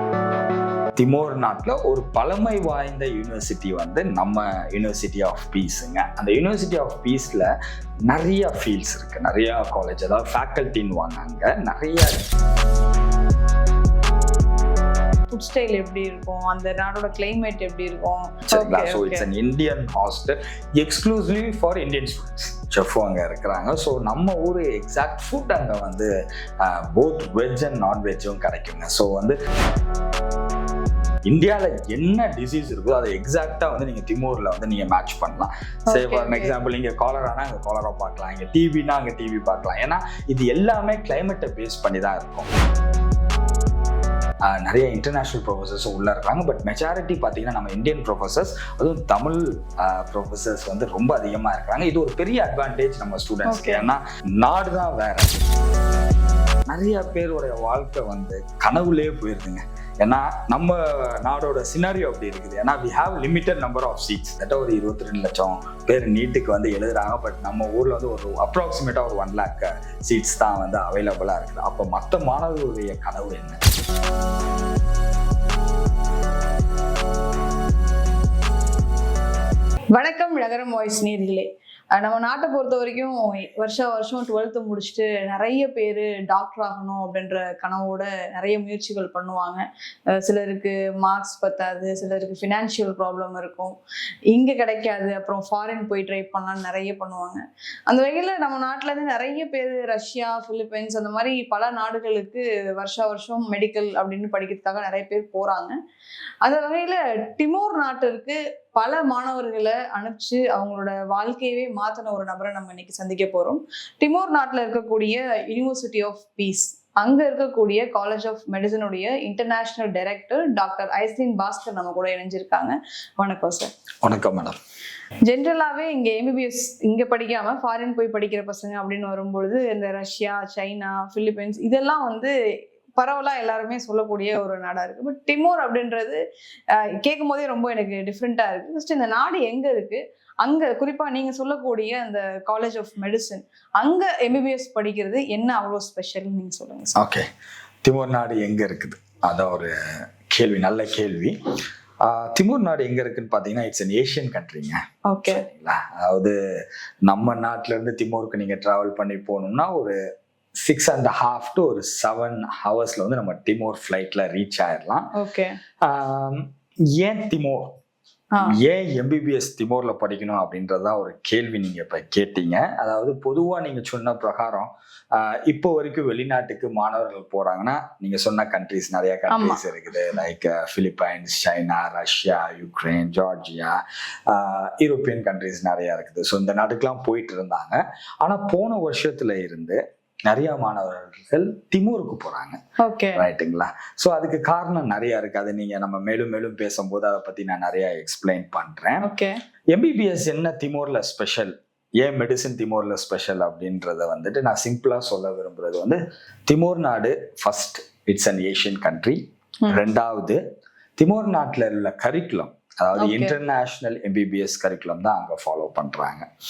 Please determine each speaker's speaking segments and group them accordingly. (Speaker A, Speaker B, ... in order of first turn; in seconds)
Speaker A: 1.0-7.5, 8.1-12.2, 18.5-26.1, 26.6-29.4, 31.3-42.5, 44.5-55.4, 56.7-73.6, 124.0-124.6, 147.0-147.3, 147.8-149.7, 150.3-151.4, 152.0-156.4, 157.1-160.0, 160.6-165.1, 165.8-167.8, 168.4-192.6, 193.2-199.0, 199.7-210.4, 211.0-216.2
Speaker B: 15.3-19.3, 35.9-36.5, 53.5-53.9, 79.9-93.8, 94.3-105.7, 106.4-123.7, 125.2-132.3, 132.9-136.2, 136.7-147.0, 155.1-155.4, 165.1-165.6, 168.3-168.6, 179.3-179.6, 192.8-193.2, 199.0-199.4, 213.0-213.3